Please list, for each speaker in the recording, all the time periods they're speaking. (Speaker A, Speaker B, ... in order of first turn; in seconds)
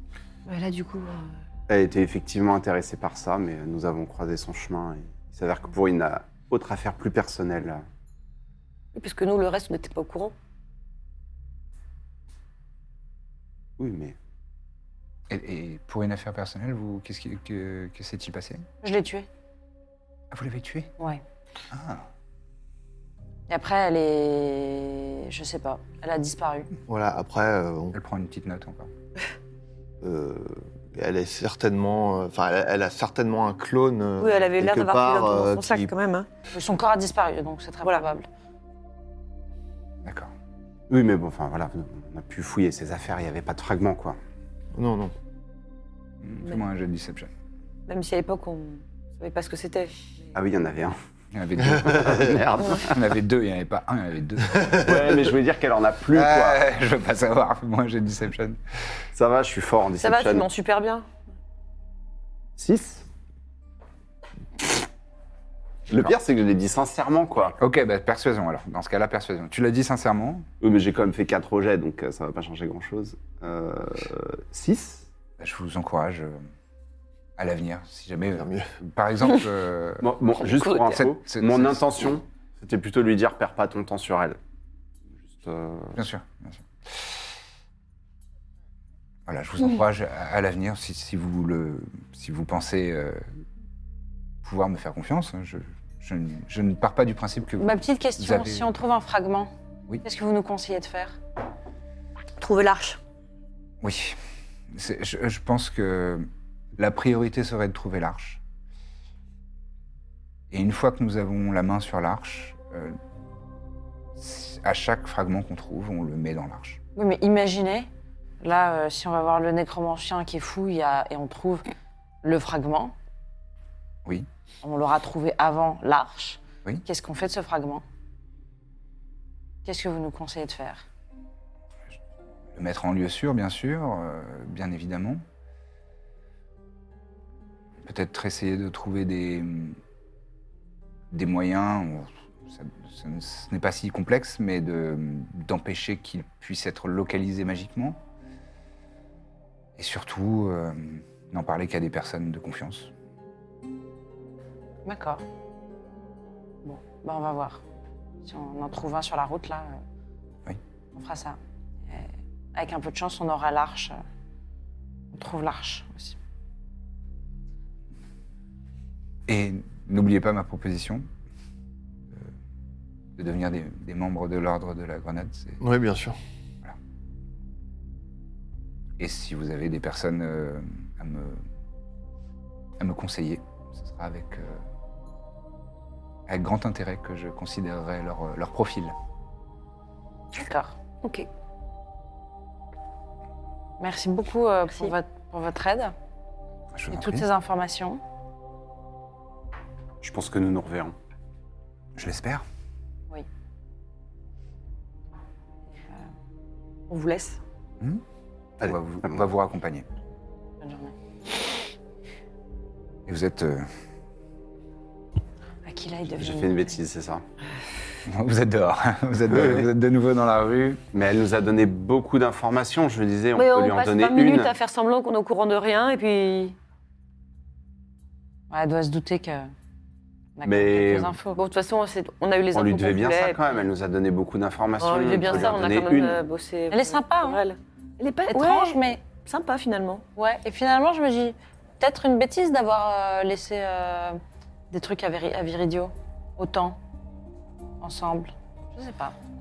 Speaker A: 0.5-1.3, 8.9-10.3, 34.2-36.3, 47.9-50.3, 60.0-61.0, 80.4-81.0, 102.4-103.0, 191.0-191.3, 206.9-207.4, 223.3-226.6, 231.3-233.4, 234.8-240.0
Speaker B: 1.7-7.8, 13.8-14.2, 40.9-44.2, 50.3-50.9, 51.7-53.0, 54.8-56.6, 59.1-60.5, 62.6-63.0, 65.9-67.5, 70.6-75.1, 80.0-84.4, 85.4-86.0, 200.0-200.9, 208.6-209.2, 216.1-217.2, 219.3-219.7, 220.9-224.5, 230.4-231.1, 232.5-236.2
Speaker C: 15.3-18.7, 20.3-20.9, 21.7-22.0, 27.9-28.9, 40.0-40.3, 46.2-47.3, 51.3-54.9, 56.1-58.6, 67.6-70.5, 75.4-76.5, 77.4-80.1, 80.9-81.9, 85.9-87.2, 89.3-93.2, 94.4-98.7, 103.8-104.2, 104.7-108.4, 110.5-113.0, 114.2-116.8, 132.5-135.2, 137.8-139.8, 141.1-148.0, 149.8-152.9, 169.3-171.1, 173.2-175.6, 179.0-181.4, 182.8-184.6, 186.3-188.9, 196.7-197.3, 202.0-202.4, 208.6-209.8, 213.1-213.7, 218.1-220.8
Speaker D: 18.8-19.3, 23.5-26.7, 36.5-38.3, 97.6-99.5, 100.0-101.2, 117.0-117.9, 118.4-121.7, 122.2-122.9, 124.6-127.8, 129.6-130.8, 154.8-155.2, 156.6-157.6, 158.2-159.8, 160.9-164.0, 165.1-166.2, 190.3-190.8, 193.8-195.9, 196.9-198.0, 210.6-210.9, 215.6-216.8, 228.5-229.5, 230.4-231.4, 236.7-237.4, 238.3-239.0, 240.2-244.2, 244.7-246.8, 247.8-249.1
Speaker E: 26.9-27.9, 30.0-35.9, 44.7-45.1, 78.3-78.7, 175.6-176.2